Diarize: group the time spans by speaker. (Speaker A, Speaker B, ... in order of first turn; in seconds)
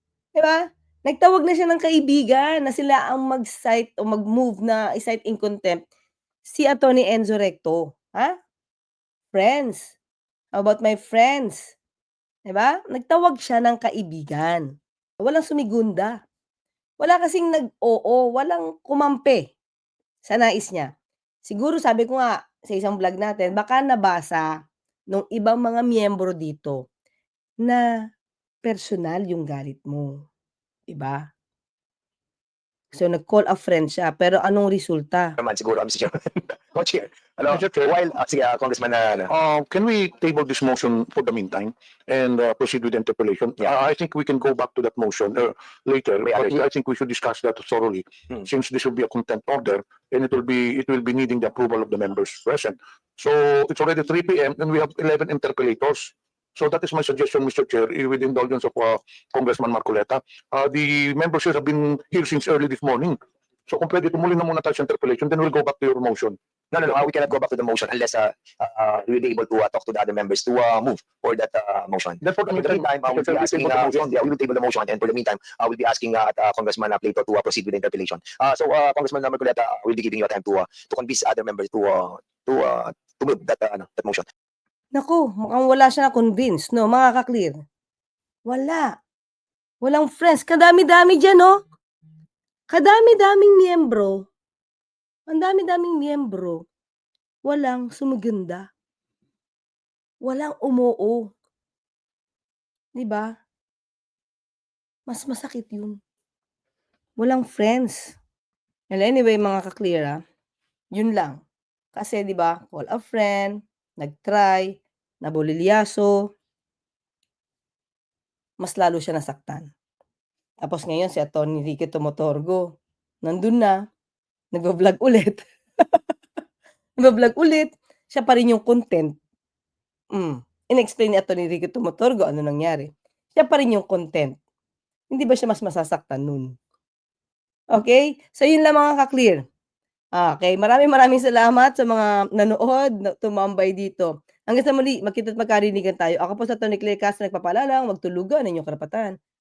Speaker A: 0.3-5.8, 6.5-8.3, 9.3-9.9, 10.5-11.7, 12.4-14.7, 15.2-16.2, 17.0-19.5, 20.2-20.9, 21.4-24.5, 25.1-26.8, 27.6-28.1, 28.6-30.2, 30.9-31.3, 32.9-35.4, 84.9-87.6, 88.5-88.9, 89.8-91.6, 92.7-94.3, 95.3-96.6, 97.5-98.7, 100.2-101.3, 103.0-103.3, 105.1-106.0, 107.2-108.2, 108.9-110.2, 110.9-111.4, 112.0-116.3, 118.6-119.7, 120.6-122.7, 123.2-123.8, 124.5-126.0, 127.0-129.2, 130.1-134.4, 135.1-136.5, 137.7-139.4, 140.2-149.2
Speaker B: 35.4-39.3, 46.2-46.6, 66.7-84.2
Speaker C: 37.5-38.0, 39.3-67.1, 72.2-74.1